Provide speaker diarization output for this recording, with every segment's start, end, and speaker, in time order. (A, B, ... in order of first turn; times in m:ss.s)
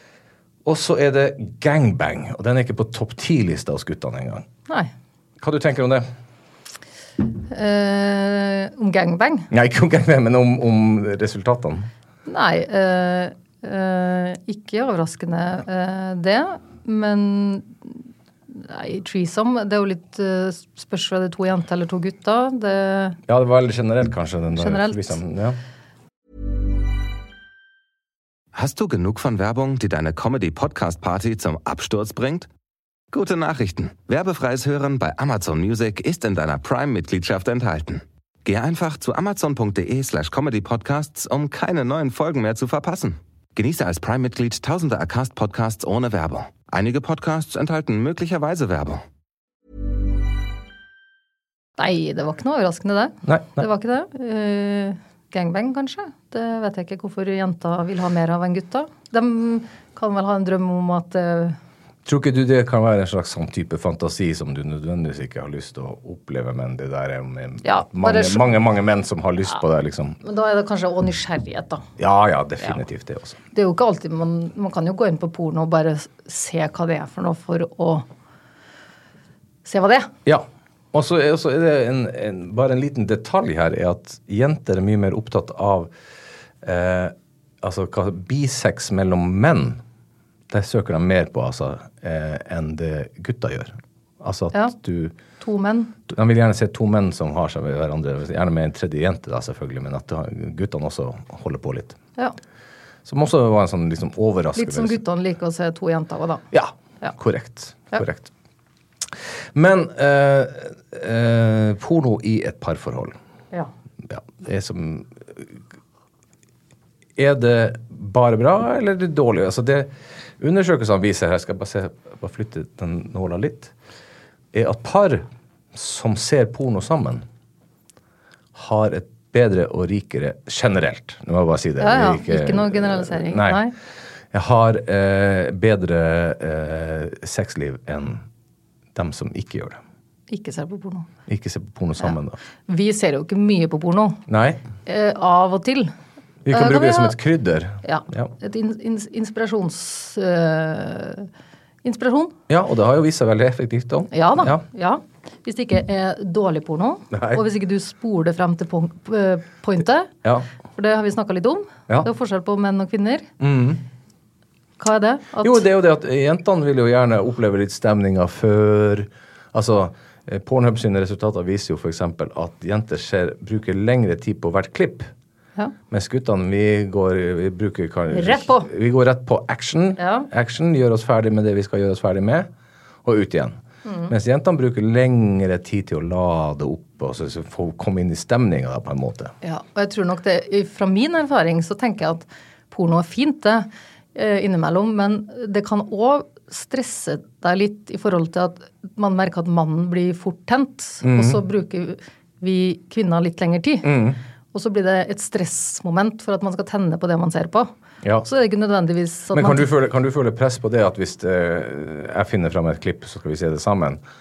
0:00.6-0:04.4 A
0:05.4-0:06.0 A
0:07.4-0:09.5 B
0:09.5-0:11.9 A
0:12.2-0:23.2 B
0:23.3-0:25.6 A
0:24.5-0:25.2 B
0:28.5-0:32.5 C
0:33.1-0:49.0 C
0:51.8-1:01.6 B
0:53.2-0:53.6 A
1:02.0-1:10.2 A
1:07.6-1:08.5 B
1:10.2-1:11.8 B
1:12.0-1:13.4 A
1:13.5-1:18.1 B
1:19.6-1:20.1 B
1:20.2-1:25.9 A
1:26.6-1:29.8 A
1:30.5-1:35.2 A
1:35.4-1:36.0 B
1:36.1-1:42.0 A
1:43.0-1:45.0 A
1:44.5-1:46.4 B
1:46.5-1:48.3 A
1:49.5-1:53.2 A
1:54.0-1:55.6 A
1:57.2-2:03.7 A
2:04.5-2:07.2 A
2:08.5-2:13.6 A
2:11.8-2:13.7 B
2:14.3-2:18.2 A
2:18.9-2:19.8 A
2:20.3-2:21.1 B
2:21.3-2:22.4 A
2:22.7-2:24.2 B
2:24.3-2:24.6 A
2:24.8-2:25.9 B
2:26.4-2:28.3 A
2:26.5-2:27.2 B
2:27.8-2:31.3 B
2:31.8-2:32.4 B
2:32.5-2:34.6 A
2:34.1-2:40.1 B
2:37.1-2:37.4 A
2:40.7-2:43.3 B
2:43.4-2:43.8 A
2:44.8-2:45.6 B
2:45.4-2:55.1 A
2:55.9-3:02.5 A
2:58.1-2:58.7 B
3:00.0-3:00.3 B
3:03.0-3:09.3 A
3:03.8-3:04.1 B
3:09.4-3:24.0 B
3:21.0-3:21.4 A
3:23.8-3:24.2 A
3:24.5-3:27.7 B
3:28.2-3:29.7 B
3:29.3-3:34.0 A